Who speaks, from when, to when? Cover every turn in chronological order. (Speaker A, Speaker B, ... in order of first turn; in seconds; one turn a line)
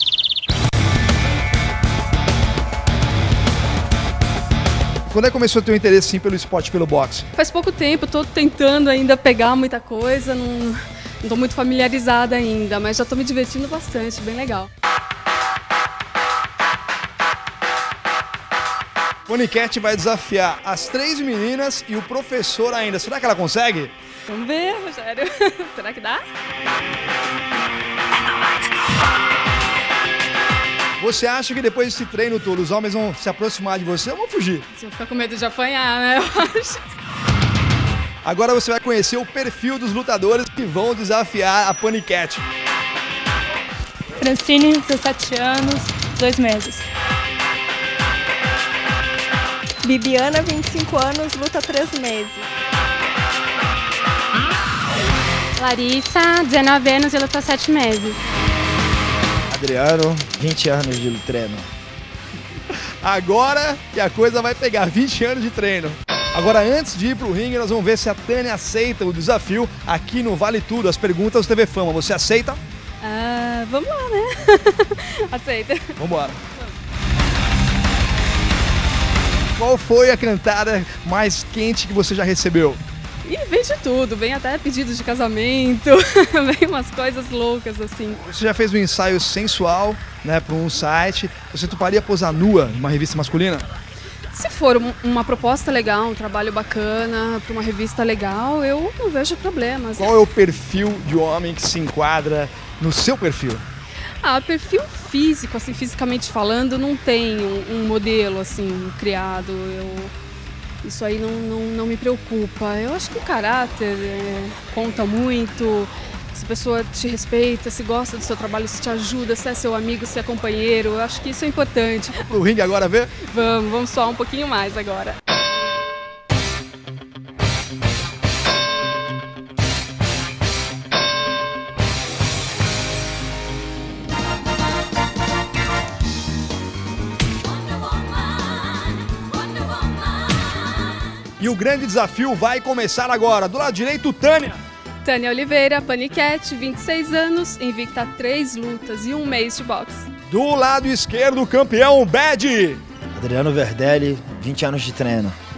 Speaker A: 5.1-7.2
Speaker B: 7.3-14.7
Speaker A: 19.3-23.9
Speaker B: 24.3-26.2
Speaker A: 31.0-34.6
Speaker B: 34.7-36.8
Speaker A: 38.2-42.4
Speaker C: 44.2-46.8
Speaker D: 49.8-52.5
Speaker E: 55.6-58.2
Speaker F: 59.5-61.7
Speaker A: 62.7-72.6
Speaker B: 73.0-76.0
Speaker A: 76.0-76.4
Speaker A: 79.6-82.8
Speaker B: 83.2-88.2
Speaker A: 88.2-93.7
Speaker B: 94.3-100.1
Speaker A: 100.0-103.6
Speaker B: 104.2-110.1
Speaker B: 110.8-122.3
Speaker A: 122.2-123.1
Speaker B: 123.2-125.2
Speaker A: 141.4-144.6
Speaker B: 145.0-150.1
Speaker A: 150.3-152.8
Speaker F: 153.1-155.4